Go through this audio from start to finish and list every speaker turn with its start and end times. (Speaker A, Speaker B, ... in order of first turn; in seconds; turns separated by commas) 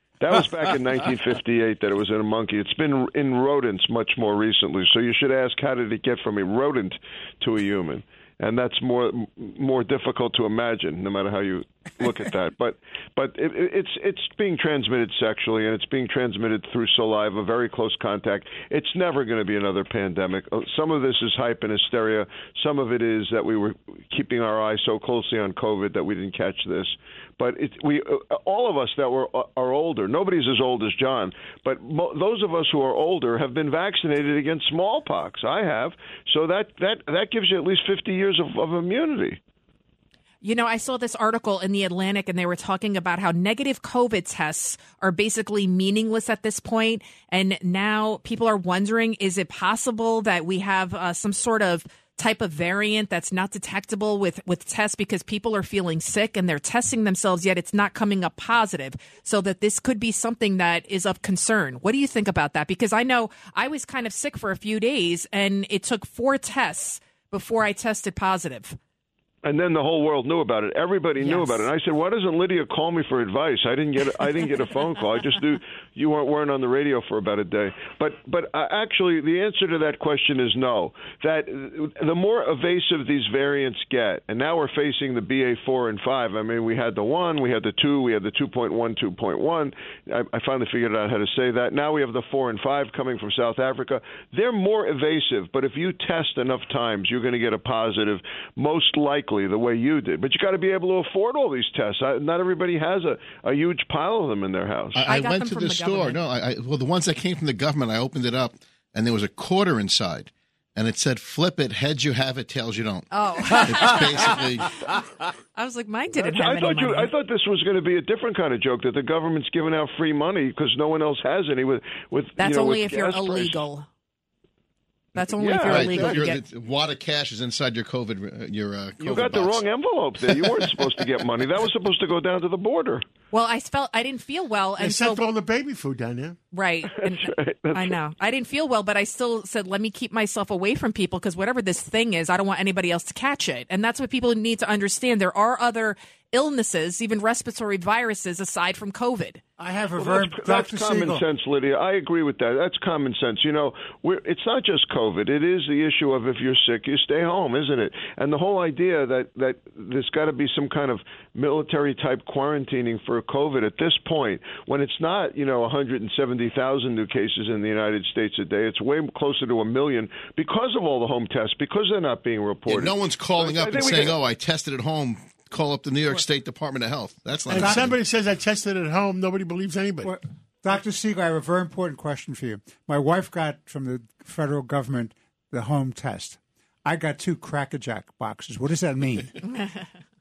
Speaker A: 0.2-39.4, Speaker B: 40.4-68.8, Speaker A: 69.4-105.0, Speaker B: 71.2-71.7, Speaker C: 104.9-114.7, Speaker B: 105.0-106.2, Speaker B: 113.1-114.5, Speaker B: 115.5-117.1, Speaker A: 116.2-123.7, Speaker B: 122.4-123.9, Speaker B: 125.1-126.4, Speaker A: 125.4-126.2, Speaker C: 125.6-129.7, Speaker A: 129.0-133.0, Speaker C: 130.6-130.8, Speaker B: 133.3-135.3, Speaker D: 134.8-136.4, Speaker B: 136.5-149.4, Speaker A: 136.8-138.0, Speaker E: 149.6-151.2, Speaker A: 150.0-174.2, Speaker C: 172.7-178.0, Speaker D: 177.5-180.1, Speaker E: 180.0-189.3, Speaker B: 189.5-189.8